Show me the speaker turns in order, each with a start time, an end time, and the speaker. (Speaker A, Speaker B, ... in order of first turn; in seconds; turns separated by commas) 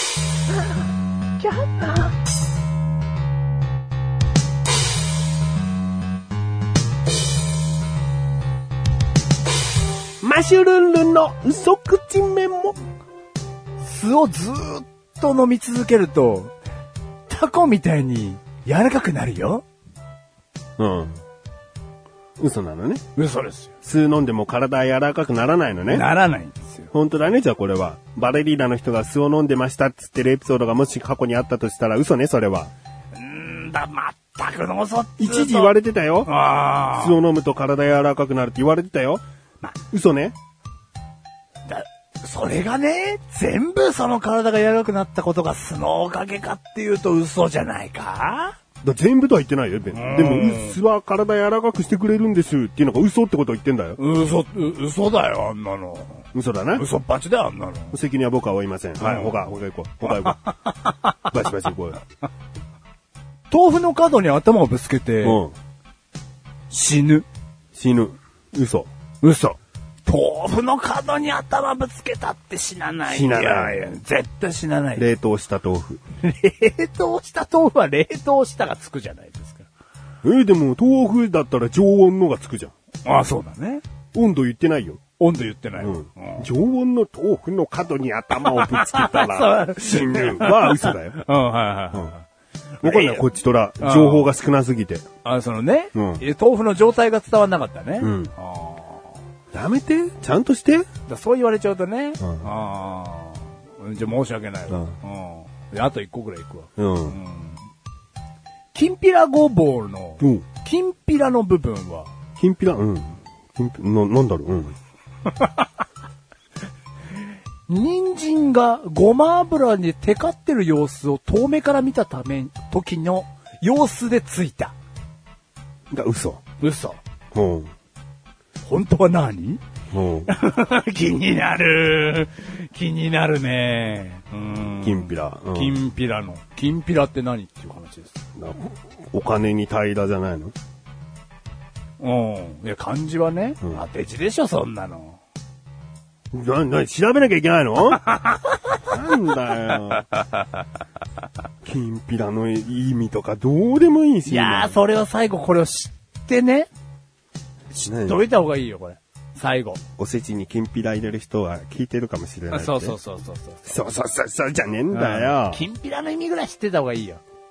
Speaker A: 1.4-2.1, Speaker B: 10.2-12.8, Speaker A: 13.8-16.5, Speaker A: 17.3-19.6, Speaker B: 20.8-21.2, Speaker B: 22.4-23.0, Speaker A: 23.1-23.7, Speaker B: 23.8-26.1, Speaker A: 25.9-26.9, Speaker B: 26.9-32.7, Speaker A: 33.1-35.7, Speaker B: 35.2-36.3, Speaker A: 36.2-37.2, Speaker B: 36.8-39.2, Speaker B: 39.9-40.3, Speaker A: 41.7-48.5, Speaker B: 48.8-54.0, Speaker A: 49.9-50.8, Speaker A: 54.0-56.2, Speaker B: 56.3-56.8, Speaker A: 56.8-58.0, Speaker B: 57.9-60.4, Speaker A: 59.0-59.3, Speaker A: 60.1-60.7, Speaker B: 61.2-62.0, Speaker A: 63.5-65.4, Speaker B: 65.2-65.5, Speaker A: 66.7-67.2, Speaker B: 67.7-68.9, Speaker A: 69.2-75.0, Speaker B: 73.1-73.8, Speaker B: 74.9-76.0, Speaker A: 76.2-79.7, Speaker B: 80.2-82.7, Speaker A: 83.0-83.8, Speaker B: 84.1-85.0, Speaker A: 85.2-86.5, Speaker B: 85.8-91.2, Speaker A: 88.4-92.2, Speaker A: 92.8-93.2, Speaker B: 92.8-95.0, Speaker A: 93.8-94.3, Speaker A: 95.2-99.1, Speaker B: 95.9-96.2, Speaker B: 98.0-98.3, Speaker B: 99.5-100.8, Speaker A: 101.1-107.6, Speaker B: 102.2-102.5, Speaker B: 106.8-107.2, Speaker A: 108.7-112.1, Speaker B: 110.2-110.4, Speaker B: 112.4-114.7, Speaker A: 115.3-115.6, Speaker A: 117.7-124.7, Speaker B: 125.9-126.4, Speaker A: 126.6-127.0, Speaker B: 127.3-127.7, Speaker A: 128.7-129.6, Speaker B: 129.9-130.3, Speaker A: 130.3-138.2, Speaker B: 134.7-135.8, Speaker B: 138.4-140.5, Speaker A: 142.0-145.2, Speaker B: 146.3-148.0, Speaker A: 148.1-148.4, Speaker B: 148.8-150.1, Speaker B: 151.6-154.8, Speaker A: 154.2-156.7, Speaker A: 157.8-159.8, Speaker B: 157.8-158.2, Speaker B: 160.0-162.9, Speaker A: 162.5-163.8, Speaker B: 163.7-165.6, Speaker A: 164.9-167.2